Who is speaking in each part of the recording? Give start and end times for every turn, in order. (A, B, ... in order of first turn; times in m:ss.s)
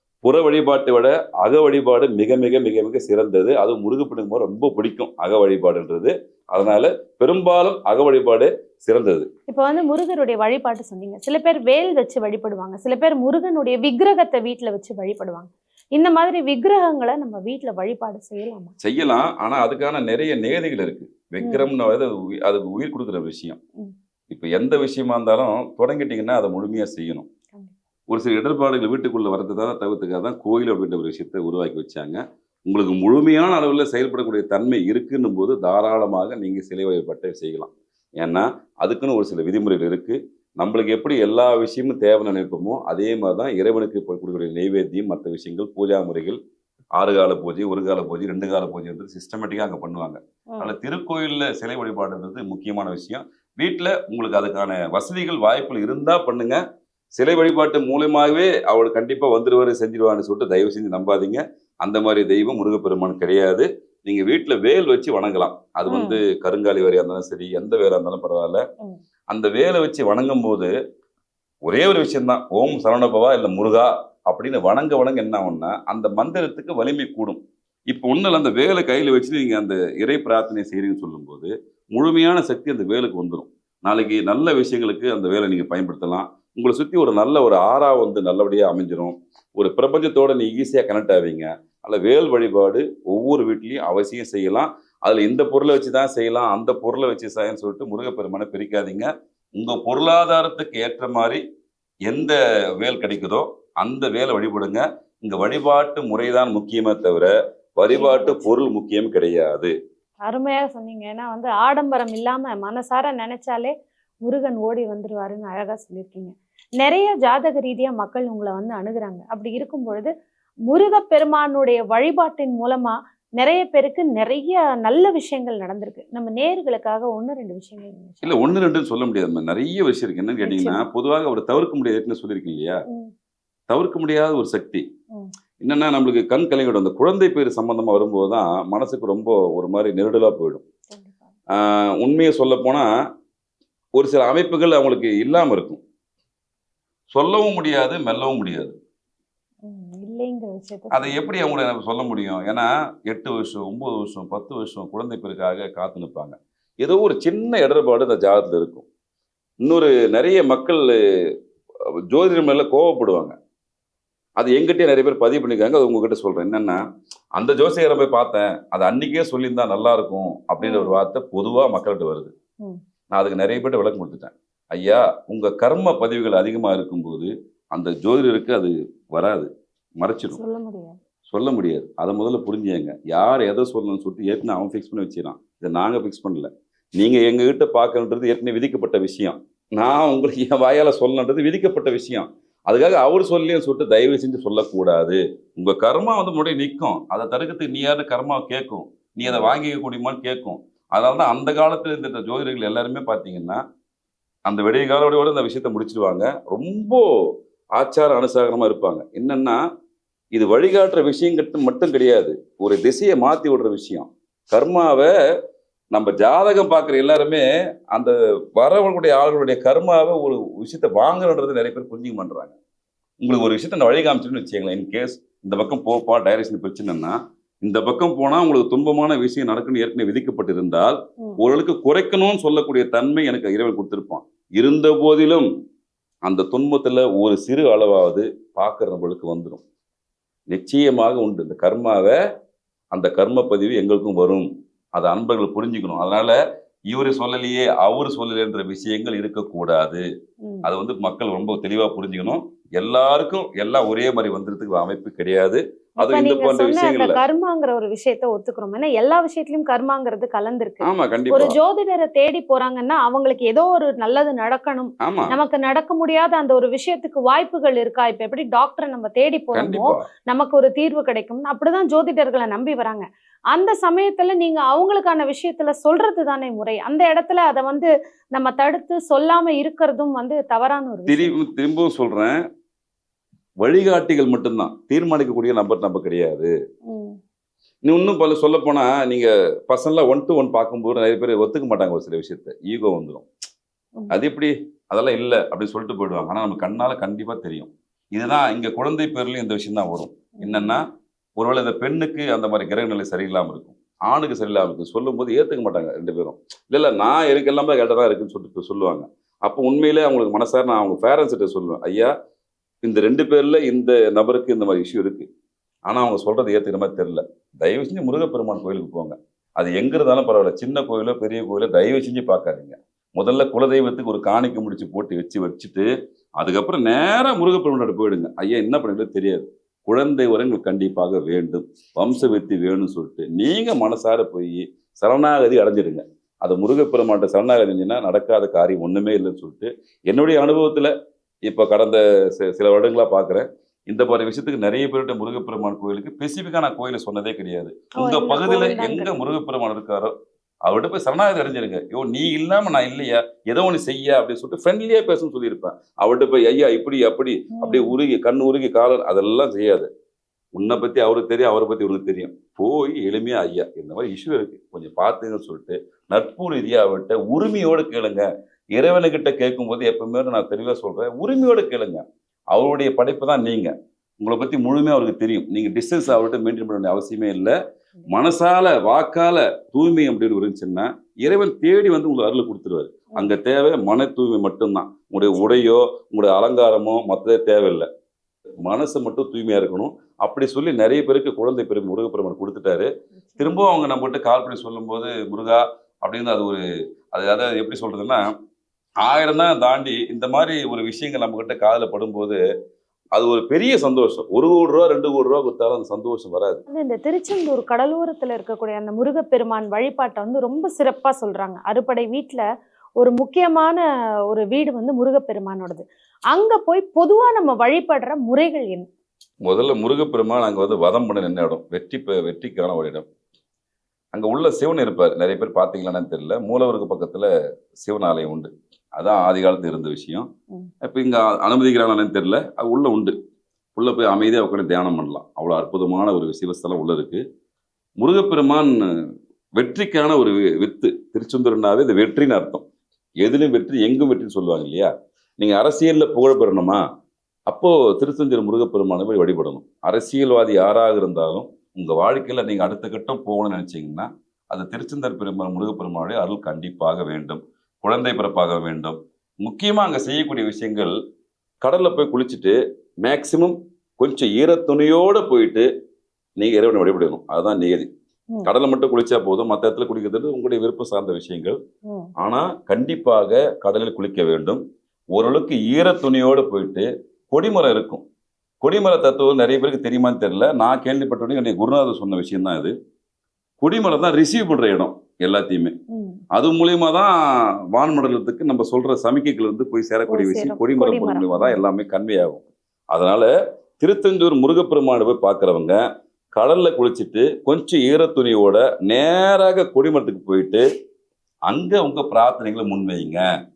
0:00.2-0:09.3 A
0:09.5-0:18.7 B
0:18.8-0:23.6 A
0:21.4-0:21.7 B
0:24.3-0:27.3 A
0:28.1-0:46.4 A
0:47.0-0:56.6 A
0:57.2-1:08.6 A
1:05.9-1:06.2 B
1:09.3-1:10.7 A
1:11.7-1:41.4 A
1:42.1-1:49.7 A
1:47.9-1:48.6 B
1:50.2-1:53.7 B
1:54.2-2:00.1 B
2:00.7-2:08.5 B
2:08.2-2:12.8 A
2:10.4-2:10.8 B
2:13.7-2:14.8 A
2:15.6-2:20.6 A
2:20.9-2:21.3 B
2:21.5-2:22.9 A
2:24.0-2:25.8 A
2:27.1-2:28.8 A
2:29.6-2:31.3 B
2:30.9-2:38.8 A
2:39.6-2:40.9 A
2:42.1-2:43.3 A
2:44.4-2:46.8 A
2:47.4-2:52.3 A
2:50.6-2:51.0 B
2:53.1-2:59.5 A
3:00.0-3:00.4 A
3:00.3-3:01.0 B
3:01.3-3:23.6 A
3:19.2-3:19.5 B
3:24.4-3:27.0 A
3:27.8-3:29.6 A
3:30.3-3:35.1 A
3:35.9-3:42.6 A
3:43.2-3:55.5 A
3:56.2-3:59.6 A
4:00.5-4:02.2 A
4:02.9-4:06.4 A
4:06.9-4:10.0 A
4:10.6-4:17.2 A
4:16.0-4:41.4 B
4:20.8-4:21.6 A
4:25.0-4:25.4 A
4:29.5-4:30.0 A
4:41.1-4:42.4 A
4:43.6-4:46.5 A
4:46.9-4:47.2 B
4:47.8-4:53.2 A
4:54.1-5:00.8 A
5:00.4-5:00.8 B
5:01.4-5:12.1 A
5:12.8-5:15.3 A
5:15.9-5:25.9 A
5:26.4-5:40.9 A
5:41.5-5:50.1 A
5:48.0-5:49.1 B
5:50.6-5:59.9 A
5:57.5-5:58.0 B
6:00.5-6:08.2 A
6:08.8-6:17.5 A
6:18.1-6:27.9 A
6:23.1-6:23.4 B
6:25.3-6:25.7 B
6:28.6-6:38.2 A
6:39.0-6:42.4 A
6:43.2-6:46.6 A
6:46.7-6:52.4 B
6:53.0-6:58.9 B
6:59.4-7:03.0 A
7:04.1-7:10.3 A
7:10.8-7:13.1 A
7:13.8-7:17.2 A
7:18.0-7:22.6 A
7:23.2-7:26.8 A
7:27.5-7:40.9 A
7:41.6-7:45.7 A
7:46.4-7:47.9 A
7:48.4-7:51.6 A
7:52.2-7:54.6 A
7:55.1-7:58.0 A
7:58.6-8:02.7 A
8:03.6-8:05.7 A
8:05.9-8:06.2 B
8:06.3-8:07.1 A
8:07.7-8:13.3 A
8:10.1-8:11.6 B
8:13.8-8:15.8 A
8:16.3-8:20.6 A
8:21.5-8:23.2 A